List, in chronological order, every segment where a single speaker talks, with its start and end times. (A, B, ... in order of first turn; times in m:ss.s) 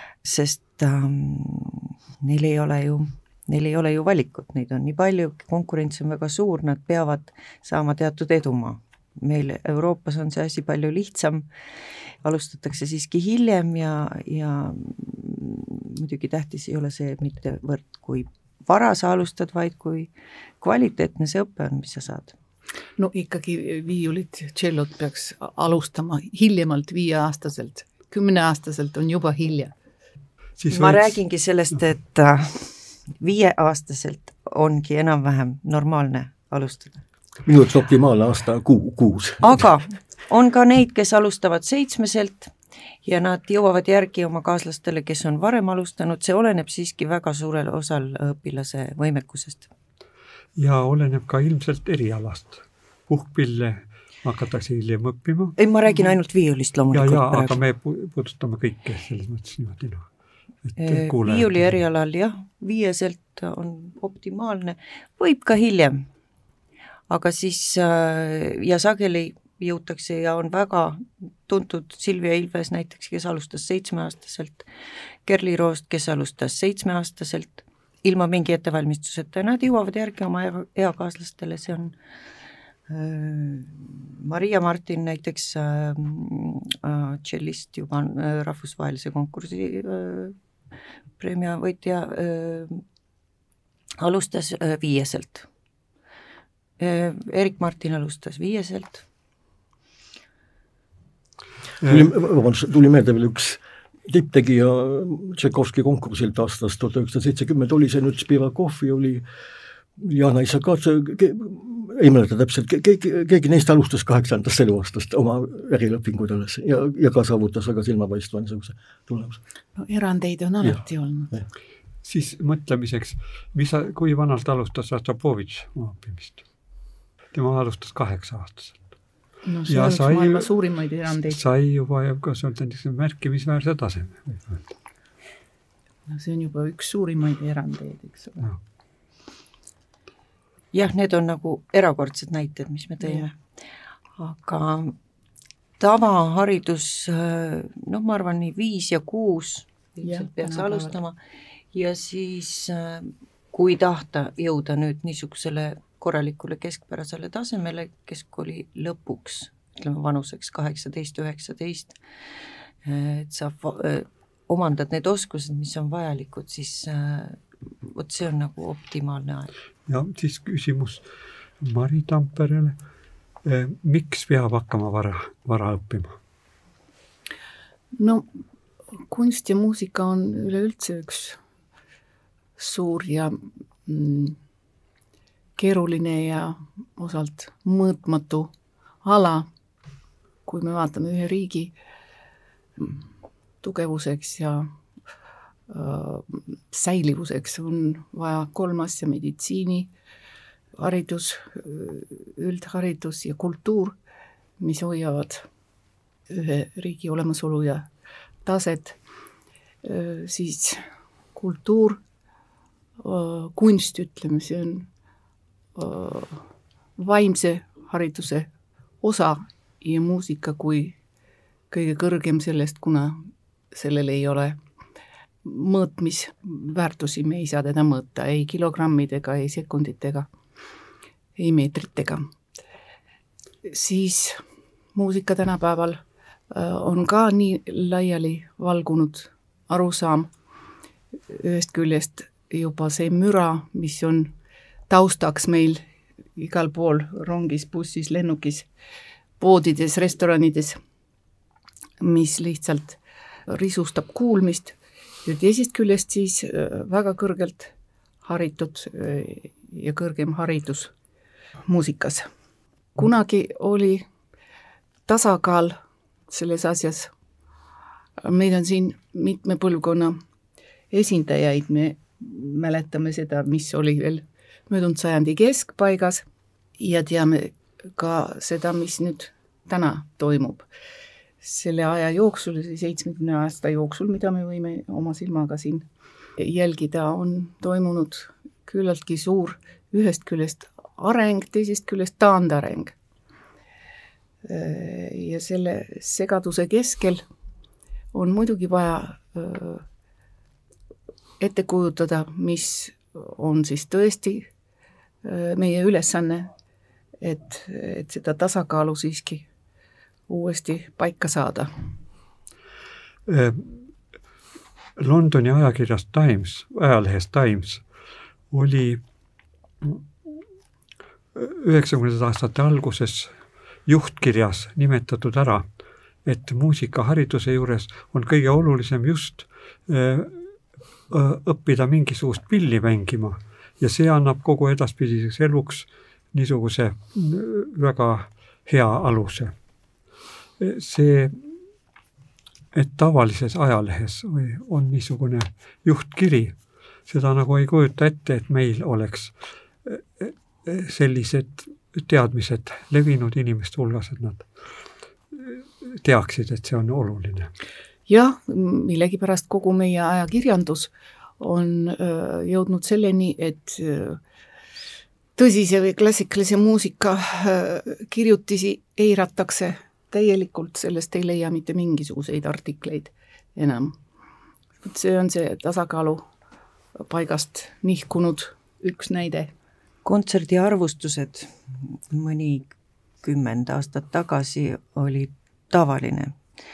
0:00.2-0:11.5 A
0:12.2-0:22.3 A
0:23.0-0:29.7 B
0:30.6-0:31.2 C
0:30.7-0:37.0 A
0:37.4-0:39.6 D
0:39.4-0:49.7 A
0:50.6-0:55.6 C
0:55.6-0:57.6 A
0:56.9-1:00.1 C
1:00.6-1:01.7 C
1:00.8-1:06.1 A
1:07.1-1:14.7 A
1:15.2-1:21.9 A
1:22.9-1:30.4 A
1:31.2-1:32.8 A
1:34.0-1:35.5 A
1:36.8-1:39.0 A
1:41.8-1:42.1 C
1:41.8-1:49.2 D
1:50.0-1:59.4 D
1:59.8-2:01.3 B
2:02.0-2:06.4 C
2:07.3-2:08.8 C
2:09.4-2:11.4 B
2:09.7-2:10.5 C
2:11.2-2:14.7 C
2:16.1-2:18.4 B
2:20.7-2:23.4 A
2:24.2-2:25.0 A
2:25.8-2:31.2 A
2:30.0-2:31.0 B
2:31.7-2:42.0 A
2:42.8-2:49.5 A
2:49.9-2:51.0 C
2:51.6-2:52.8 C
2:53.4-2:56.2 C
2:58.0-2:58.3 B
2:59.0-3:01.4 B
3:02.6-3:04.4 B
3:05.6-3:09.5 B
3:10.5-3:11.7 B
3:12.8-3:13.0 B
3:13.6-3:14.7 B
3:15.7-3:19.9 B
3:20.8-3:24.0 B
3:24.6-3:25.5 B
3:26.3-3:27.9 B
3:28.4-3:29.0 B
3:29.8-3:30.8 B
3:31.4-3:32.0 B
3:33.0-3:34.9 B
3:35.8-3:38.5 B
3:39.0-3:41.0 B
3:41.7-3:44.6 B
3:45.4-3:50.3 B
3:51.4-3:52.3 B
3:53.6-3:54.4 B
3:55.0-4:00.3 B
4:01.3-4:04.4 B
4:04.9-4:05.8 B
4:06.4-4:08.7 B
4:09.4-4:10.8 B
4:12.0-4:20.9 B
4:21.7-4:22.3 B
4:23.0-4:24.1 B
4:25.1-4:25.8 B
4:26.3-4:27.1 B
4:28.2-4:30.2 B
4:30.9-4:36.2 B
4:36.8-4:40.6 B
4:41.4-4:45.8 B
4:46.4-4:53.0 B
4:54.4-4:57.2 B
4:58.1-4:59.8 B
5:01.4-5:04.5 B
5:05.2-5:06.5 B
5:07.2-5:09.5 B
5:10.3-5:11.7 B
5:13.3-5:13.8 C
5:15.0-5:17.8 C
5:18.5-5:19.0 C
5:21.4-5:23.3 C
5:23.9-5:25.7 C
5:26.2-5:30.4 C
5:31.1-5:39.5 C
5:40.6-5:41.4 C
5:42.7-5:46.6 C
5:47.1-5:49.3 C
5:49.9-5:54.4 C
5:55.4-5:57.5 C
5:58.1-6:04.2 B
6:05.4-6:14.0 B
6:14.8-6:16.3 B
6:17.0-6:19.5 B
6:20.0-6:26.4 A